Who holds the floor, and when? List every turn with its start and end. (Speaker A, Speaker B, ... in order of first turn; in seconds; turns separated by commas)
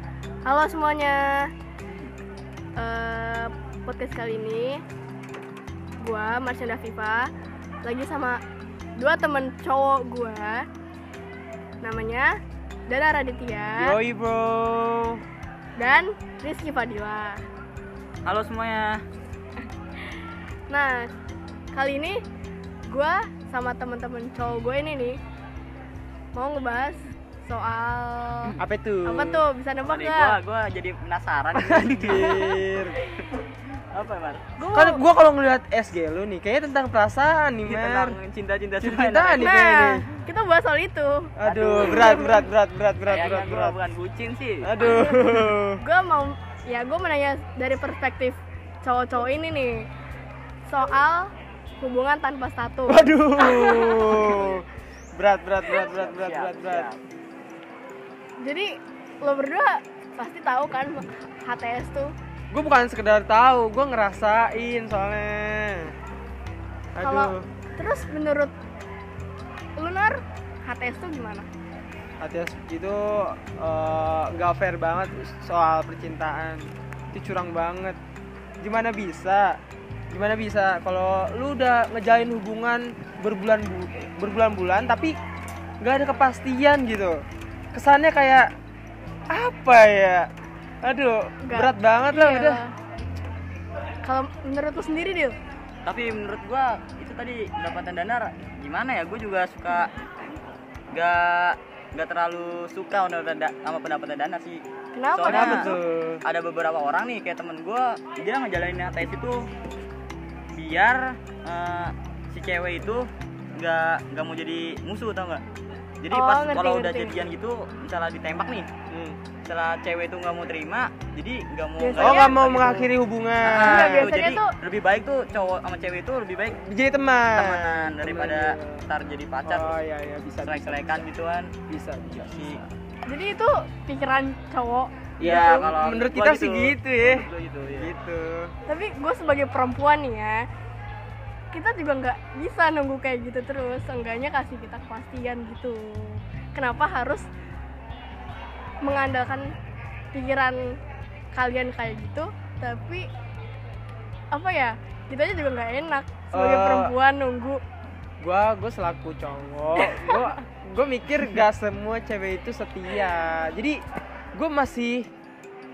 Speaker A: 0.5-1.5, Speaker A: 2.8-4.8, Speaker A: 6.0-7.3, Speaker A: 7.8-8.4, Speaker A: 9.0-10.7, Speaker A: 11.8-14.0, Speaker B: 13.8-15.2, Speaker A: 15.8-17.4, Speaker C: 18.2-19.0, Speaker A: 20.7-21.1, Speaker A: 21.7-22.2, Speaker A: 22.9-25.2, Speaker A: 26.3-30.4, Speaker B: 28.6-29.4, Speaker C: 29.8-32.4, Speaker B: 31.5-33.0, Speaker A: 32.1-33.2, Speaker C: 33.9-34.4, Speaker A: 34.6-35.0, Speaker B: 34.7-38.2, Speaker C: 37.6-39.5, Speaker B: 38.8-40.0, Speaker A: 39.4-41.3, Speaker B: 41.4-43.8, Speaker C: 41.4-42.3, Speaker A: 41.8-42.4, Speaker C: 43.0-44.9, Speaker B: 44.6-45.8, Speaker A: 44.8-49.9, Speaker A: 50.7-54.3, Speaker B: 52.9-56.9, Speaker C: 55.8-57.0, Speaker A: 58.4-62.1, Speaker B: 62.5-65.9, Speaker B: 66.9-67.4, Speaker A: 67.0-68.5, Speaker A: 69.8-71.5, Speaker B: 72.2-78.0, Speaker B: 78.6-79.6, Speaker B: 80.1-85.2, Speaker B: 85.8-87.2, Speaker B: 87.7-88.5, Speaker B: 89.3-90.3, Speaker B: 90.8-92.6, Speaker A: 91.4-92.7, Speaker A: 94.0-95.3, Speaker C: 95.8-99.9, Speaker C: 100.9-104.6, Speaker A: 104.9-105.8, Speaker C: 105.2-109.5, Speaker B: 105.3-106.2, Speaker C: 110.5-115.4, Speaker C: 116.0-118.7, Speaker A: 116.1-117.1, Speaker B: 118.9-119.2, Speaker C: 119.5-122.9, Speaker A: 121.8-122.4, Speaker B: 122.0-124.1, Speaker C: 123.4-126.6, Speaker A: 123.6-124.5, Speaker B: 126.6-128.9, Speaker C: 127.3-129.8, Speaker B: 129.4-131.1, Speaker C: 130.4-131.5, Speaker B: 131.7-132.6, Speaker C: 132.1-132.6, Speaker A: 133.1-135.8, Speaker B: 135.2-138.5, Speaker C: 135.2-137.9, Speaker A: 138.7-140.5, Speaker A: 141.5-147.2, Speaker A: 148.8-149.5, Speaker A: 150.1-150.8, Speaker A: 151.3-153.1, Speaker A: 154.3-157.6, Speaker B: 156.3-156.9, Speaker B: 158.2-163.8, Speaker A: 159.8-160.3, Speaker B: 164.3-165.1